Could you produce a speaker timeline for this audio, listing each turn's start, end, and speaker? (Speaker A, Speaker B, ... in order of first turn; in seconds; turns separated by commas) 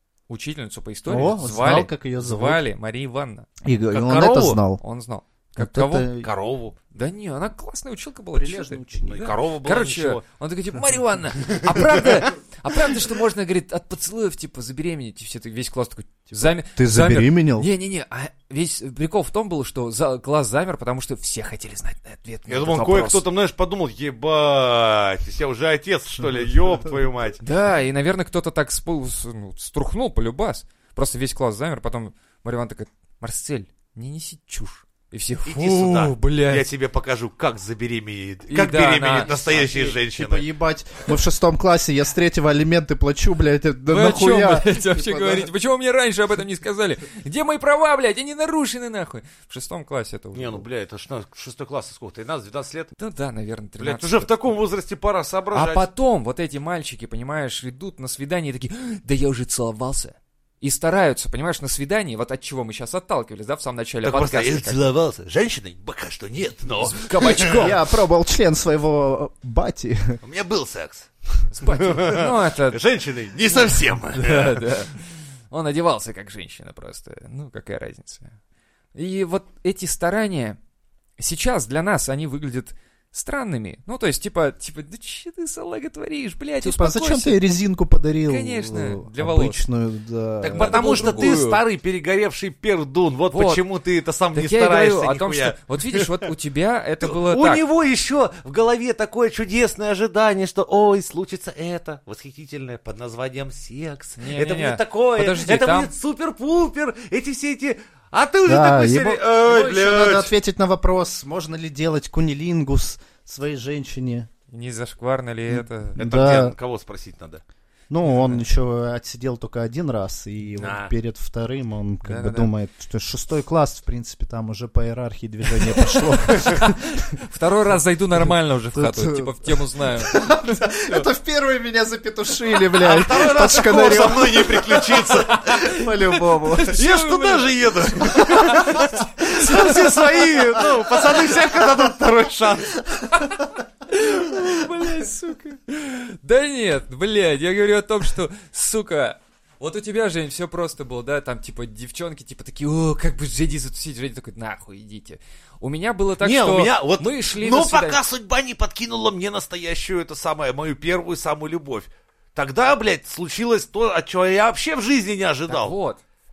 Speaker A: 0.3-3.5, Speaker B: 1.1-2.6, Speaker B: 3.6-4.8, Speaker C: 3.9-4.6, Speaker A: 4.8-6.1, Speaker B: 5.5-6.3, Speaker C: 6.2-6.7, Speaker A: 6.9-23.2, Speaker B: 8.3-9.3, Speaker C: 9.1-10.2, Speaker C: 11.5-12.1, Speaker B: 16.3-17.7, Speaker C: 22.5-27.4, Speaker A: 27.4-36.6, Speaker C: 35.5-40.5, Speaker A: 38.5-39.7, Speaker B: 39.5-45.5, Speaker A: 43.9-50.6, Speaker C: 50.3-52.9, Speaker A: 53.0-54.3, Speaker C: 53.8-55.9, Speaker A: 55.5-64.8, Speaker C: 64.0-67.7, Speaker A: 66.8-67.8, Speaker B: 67.2-70.2, Speaker C: 70.2-74.7, Speaker A: 71.5-72.8, Speaker A: 74.1-78.3, Speaker A: 78.9-80.6, Speaker A: 81.2-87.4, Speaker B: 86.6-91.4, Speaker A: 88.2-89.6, Speaker C: 90.4-96.3, Speaker A: 90.5-91.6, Speaker A: 93.3-93.6, Speaker A: 94.3-97.6, Speaker C: 97.0-110.3, Speaker A: 104.2-105.9, Speaker B: 108.4-114.3, Speaker A: 114.5-116.0, Speaker B: 115.5-116.5, Speaker C: 116.0-117.4, Speaker B: 117.9-127.0, Speaker A: 118.0-118.4, Speaker C: 120.6-120.9, Speaker A: 122.0-122.5, Speaker A: 126.5-131.1, Speaker B: 128.7-136.8, Speaker C: 132.8-135.6, Speaker A: 135.3-137.6, Speaker C: 136.7-142.8, Speaker A: 138.1-139.8, Speaker B: 138.2-140.0, Speaker B: 141.2-141.5, Speaker A: 143.1-158.0, Speaker B: 144.2-145.4, Speaker C: 156.2-165.7, Speaker A: 165.5-166.0